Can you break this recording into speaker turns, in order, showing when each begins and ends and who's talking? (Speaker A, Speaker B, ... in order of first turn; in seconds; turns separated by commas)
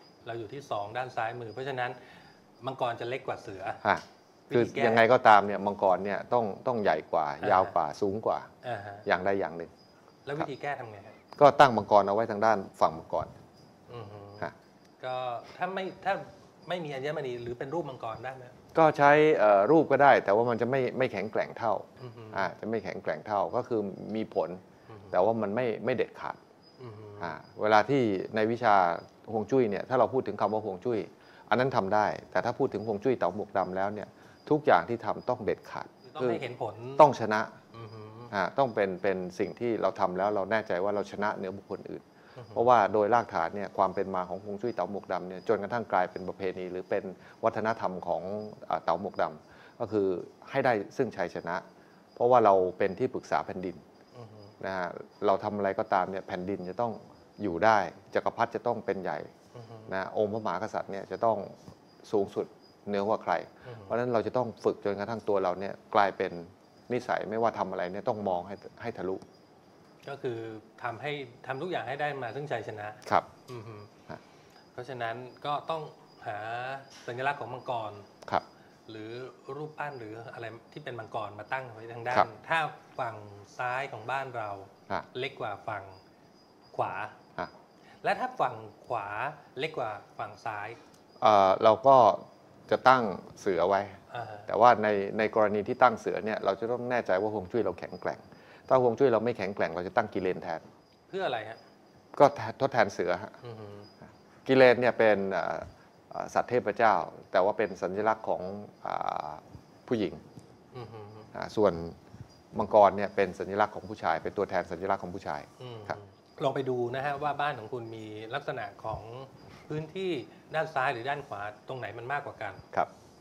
Speaker A: 0.2-3.8, Speaker B: 3.8-8.5, Speaker A: 4.5-5.1, Speaker A: 7.4-7.8, Speaker A: 8.6-9.1, Speaker B: 9.1-9.7, Speaker A: 10.2-11.2, Speaker B: 11.4-13.3, Speaker A: 13.9-18.6, Speaker B: 18.8-26.4, Speaker A: 22.0-22.5, Speaker A: 24.9-25.1, Speaker A: 26.8-27.4, Speaker B: 27.2-36.4, Speaker A: 36.0-37.1, Speaker B: 37.0-37.5, Speaker A: 37.7-38.3, Speaker B: 38.3-42.0, Speaker A: 42.4-42.6, Speaker B: 42.5-51.6, Speaker B: 52.2-53.8, Speaker A: 54.1-54.5, Speaker B: 54.6-59.3, Speaker A: 59.5-59.9, Speaker B: 59.9-69.2, Speaker A: 63.6-64.0, Speaker A: 70.0-73.9, Speaker A: 74.8-78.1, Speaker A: 78.9-86.0, Speaker A: 86.7-87.2, Speaker A: 88.0-90.8, Speaker B: 91.2-100.6, Speaker A: 94.1-94.5, Speaker A: 101.1-101.6, Speaker B: 102.2-103.3, Speaker A: 103.4-103.9, Speaker B: 104.5-110.2, Speaker A: 110.7-111.3, Speaker B: 111.3-112.0, Speaker B: 112.5-116.0, Speaker A: 115.6-122.6